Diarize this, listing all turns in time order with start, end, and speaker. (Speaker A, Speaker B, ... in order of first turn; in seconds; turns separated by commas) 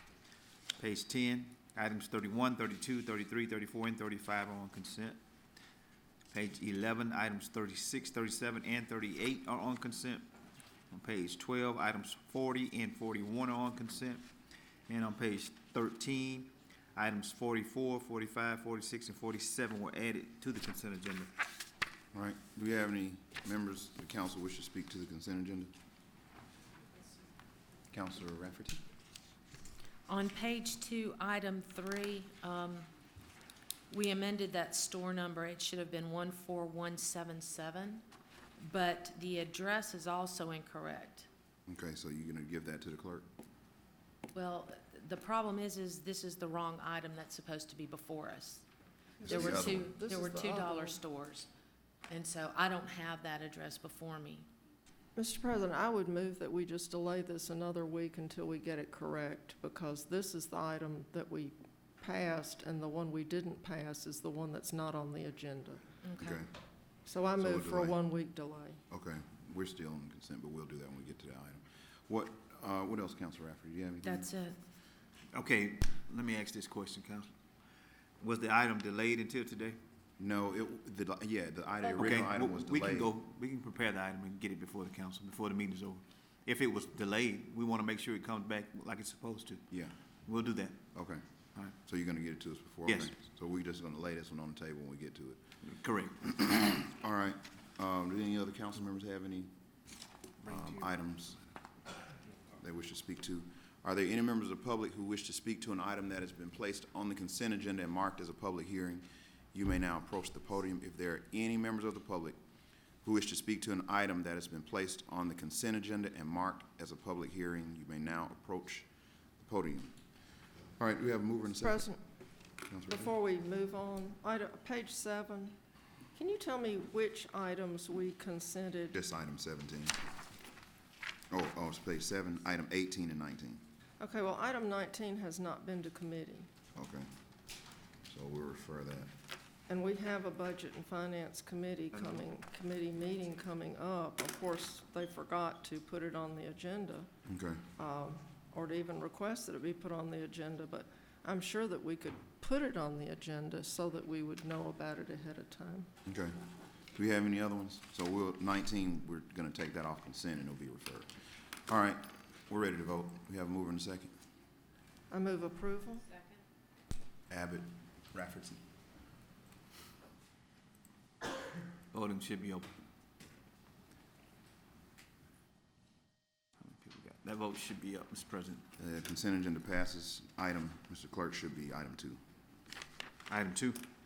Speaker A: 0.8-5.2, Speaker A: 6.3-10.2, Speaker A: 10.9-14.3, Speaker A: 14.9-21.3, Speaker B: 22.1-25.7, Speaker B: 27.9-28.8, Speaker C: 30.1-32.9, Speaker C: 33.9-38.0, Speaker C: 38.6-41.3, Speaker B: 41.7-43.3, Speaker C: 44.3-48.6, Speaker D: 49.2-51.0, Speaker B: 49.2-49.9, Speaker C: 49.2-51.5, Speaker C: 52.1-54.5, Speaker D: 55.1-65.8, Speaker C: 66.0-66.4, Speaker B: 66.2-66.5, Speaker D: 67.0-68.8, Speaker B: 67.4-68.0, Speaker B: 68.9-74.3, Speaker C: 74.0-74.6, Speaker A: 75.3-77.3, Speaker A: 78.2-79.8, Speaker B: 80.2-83.1, Speaker A: 82.0-89.7, Speaker B: 89.7-90.0, Speaker A: 90.2-90.8, Speaker B: 90.9-95.4, Speaker A: 92.9-93.1, Speaker A: 95.6-96.2, Speaker B: 96.2-99.5, Speaker A: 100.4-100.9, Speaker B: 100.5-101.4, Speaker B: 102.6-112.4, Speaker B: 113.0-118.9, Speaker B: 119.4-119.9, Speaker B: 120.8-121.8, Speaker D: 121.6-122.0, Speaker B: 122.7-123.1, Speaker D: 122.9-125.5, Speaker D: 126.1-128.9, Speaker B: 128.9-130.0, Speaker B: 131.3-133.6, Speaker D: 134.0-136.5, Speaker B: 136.7-137.1, Speaker B: 138.1-139.1, Speaker D: 139.7-147.1, Speaker A: 141.9-142.3, Speaker B: 147.2-147.6, Speaker D: 147.8-155.9, Speaker B: 156.1-161.1, Speaker B: 161.7-164.1, Speaker D: 165.1-166.1, Speaker B: 167.3-168.6, Speaker A: 171.9-172.7, Speaker A: 176.6-178.7, Speaker B: 178.8-182.2, Speaker A: 183.3-183.9